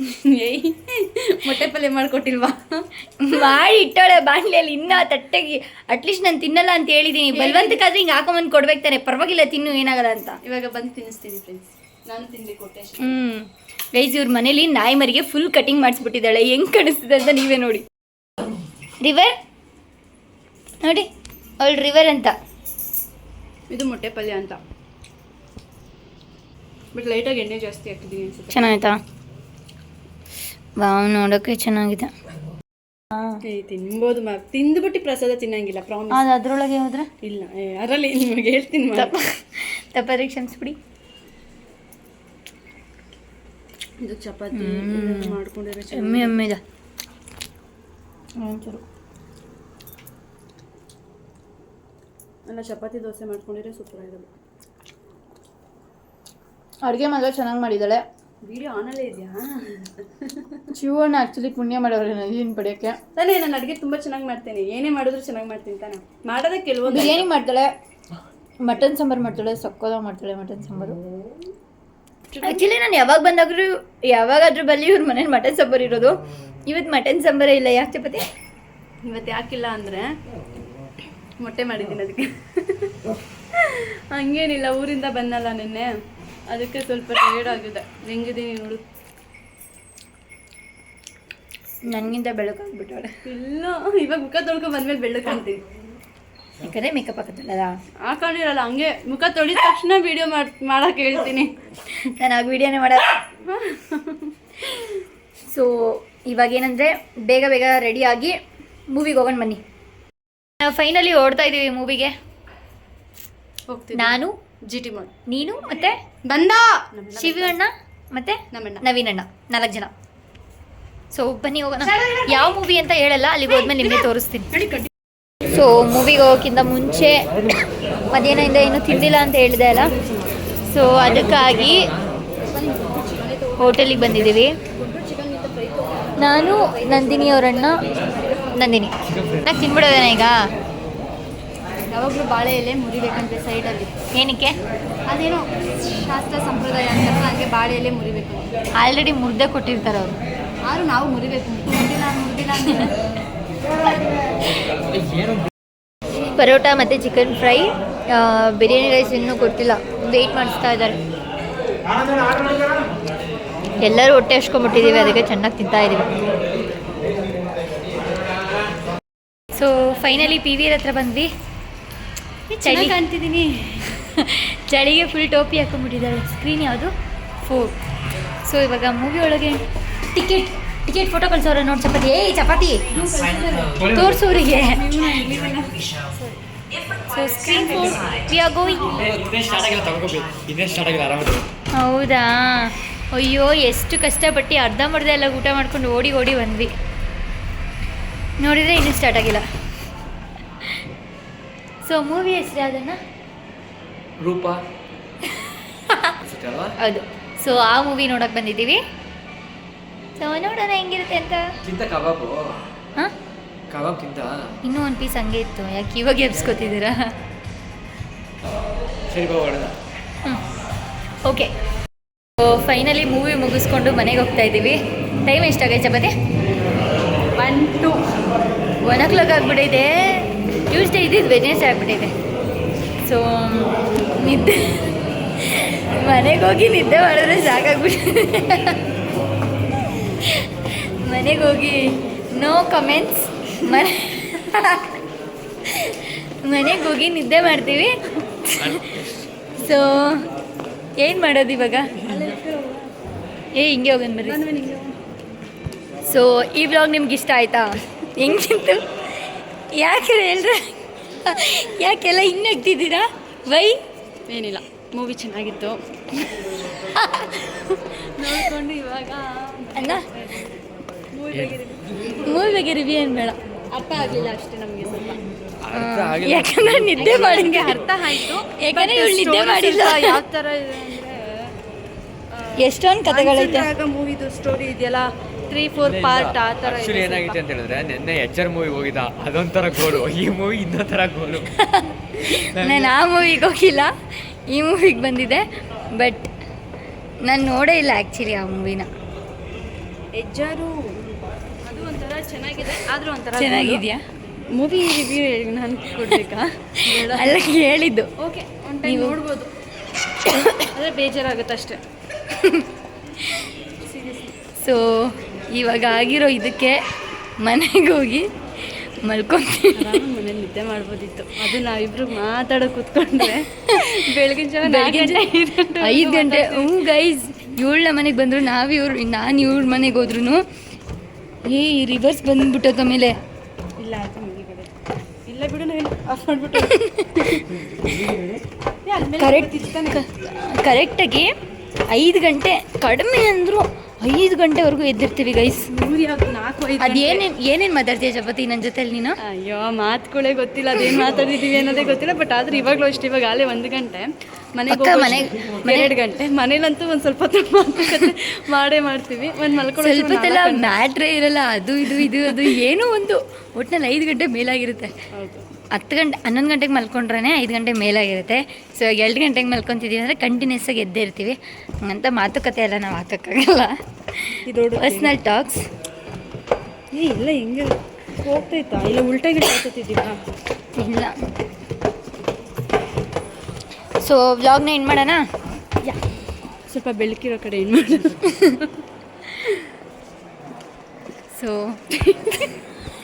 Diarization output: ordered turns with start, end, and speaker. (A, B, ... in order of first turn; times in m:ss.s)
0:00.2-0:03.6 A
0:03.2-0:10.4 B
0:07.3-0:07.8 A
0:10.4-0:13.1 A
0:13.0-0:17.8 B
0:19.0-0:19.3 B
0:20.8-0:21.1 B
0:21.6-0:22.3 B
0:23.7-0:24.6 A
0:26.9-0:28.6 A
0:28.5-0:29.0 B
0:30.8-0:32.1 B
0:33.1-0:33.4 B
0:33.4-0:36.3 A
0:36.1-0:37.1 B
0:37.2-0:39.1 A
0:38.9-0:40.8 B
0:44.0-0:46.4 A
0:44.5-0:45.4 B
0:45.9-0:46.6 B
0:48.4-0:48.8 B
0:52.5-0:54.3 A
0:56.8-0:58.0 B
0:58.4-1:00.6 A
1:00.7-1:03.0 B
1:03.1-1:07.2 A
1:06.9-1:07.7 B
1:08.6-1:11.0 B
1:12.3-1:12.6 A
1:12.4-1:18.2 B
1:19.0-1:20.2 A
1:21.4-1:26.0 A
1:26.5-1:28.8 A
1:31.9-1:33.1 B
1:33.2-1:35.6 A
1:36.6-1:37.7 B
1:38.0-1:41.6 A
1:42.1-1:43.2 B
1:43.4-1:45.0 A
1:45.5-1:48.4 B
1:48.9-1:49.6 B
1:50.6-1:52.1 B
1:53.7-1:55.1 A
1:53.9-1:54.3 B
1:55.3-1:56.0 B
1:56.2-1:57.6 A
1:57.2-1:59.9 B
1:58.5-1:58.8 A
2:01.1-2:04.5 B
2:01.9-2:02.4 A
2:04.5-2:04.9 A
2:05.4-2:07.3 B
2:08.1-2:09.9 B
2:10.7-2:11.9 B
2:12.4-2:14.1 A
2:13.6-2:14.5 B
2:14.7-2:16.1 A
2:16.2-2:17.8 B
2:18.5-2:20.4 B
2:21.9-2:23.9 A
2:24.2-2:24.6 B
2:25.1-2:28.5 A
2:28.8-2:30.1 B
2:30.7-2:33.0 A
2:36.3-2:41.0 B
2:43.8-2:46.1 B
2:44.8-2:45.1 A
2:49.5-2:51.3 B
2:52.5-2:54.0 A
2:52.6-2:53.0 B
2:54.1-2:57.7 B
2:58.5-2:59.6 B
3:00.1-3:02.8 B
3:02.9-3:03.8 A
3:03.8-3:04.1 C
3:03.9-3:04.8 B
3:04.4-3:06.4 A
3:07.1-3:09.0 B
3:07.5-3:08.1 A
3:08.7-3:09.2 A
3:09.0-3:11.4 C
3:11.8-3:16.7 B
3:18.4-3:19.4 B
3:21.8-3:23.0 B
3:24.2-3:24.6 C
3:25.4-3:26.1 B
3:26.2-3:26.7 C
3:26.8-3:28.8 B
3:30.2-3:31.4 B
3:31.6-3:32.6 C
3:33.7-3:34.5 C
3:34.6-3:37.1 B
3:39.1-3:39.7 C
3:41.2-3:41.5 B
3:42.4-3:46.1 B
3:47.4-3:48.0 A
3:48.8-3:52.1 B
3:53.0-3:58.8 B
4:00.2-4:05.0 B
4:05.7-4:07.9 B
4:08.5-4:10.3 B
4:11.0-4:11.9 B
4:12.0-4:12.9 A
4:13.5-4:14.4 B
4:14.2-4:14.9 A
4:16.0-4:18.8 B
4:19.7-4:23.8 B
4:24.3-4:26.4 A
4:26.8-4:27.7 B
4:27.8-4:32.3 A
4:29.8-4:30.0 B
4:32.2-4:33.4 B
4:33.7-4:35.2 A
4:35.6-4:37.3 C
4:35.7-4:38.0 B
4:37.0-4:41.5 A
4:38.6-4:40.2 B
4:42.3-4:47.4 A
4:42.6-4:43.7 B
4:45.8-4:51.5 C
4:51.5-4:53.9 B
4:52.5-4:52.9 C
4:54.5-4:56.3 B
4:57.2-4:58.9 B
5:00.1-5:01.0 A
5:01.6-5:03.9 A
5:03.3-5:04.0 B
5:04.5-5:07.4 A
5:06.9-5:08.1 B
5:08.2-5:09.5 A
5:08.8-5:09.2 B
5:10.2-5:10.7 B
5:10.7-5:11.8 A
5:12.3-5:12.7 B
5:13.8-5:14.3 A
5:14.6-5:16.8 B
5:17.4-5:20.0 B
5:19.8-5:26.9 A
5:24.6-5:25.2 B
5:25.8-5:30.4 B
5:31.5-5:33.1 B
5:33.8-5:34.7 A
5:35.3-5:37.5 A
5:36.6-5:37.2 B
5:37.8-5:38.3 B
5:38.8-5:40.0 A
5:39.2-5:41.3 B
5:41.9-5:45.7 B
5:45.7-5:47.2 A
5:46.8-5:49.2 B
5:49.2-6:00.7 A
5:54.7-5:55.9 B
5:59.8-6:04.9 B
6:02.0-6:02.5 A
6:05.1-6:05.4 A
6:05.7-6:15.6 B
6:14.4-6:15.2 A
6:16.9-6:20.2 A
6:20.7-6:21.2 B
6:24.0-6:25.2 B
6:26.7-6:28.8 A
6:29.4-6:29.7 A
6:31.3-6:31.8 B
6:31.9-6:32.5 A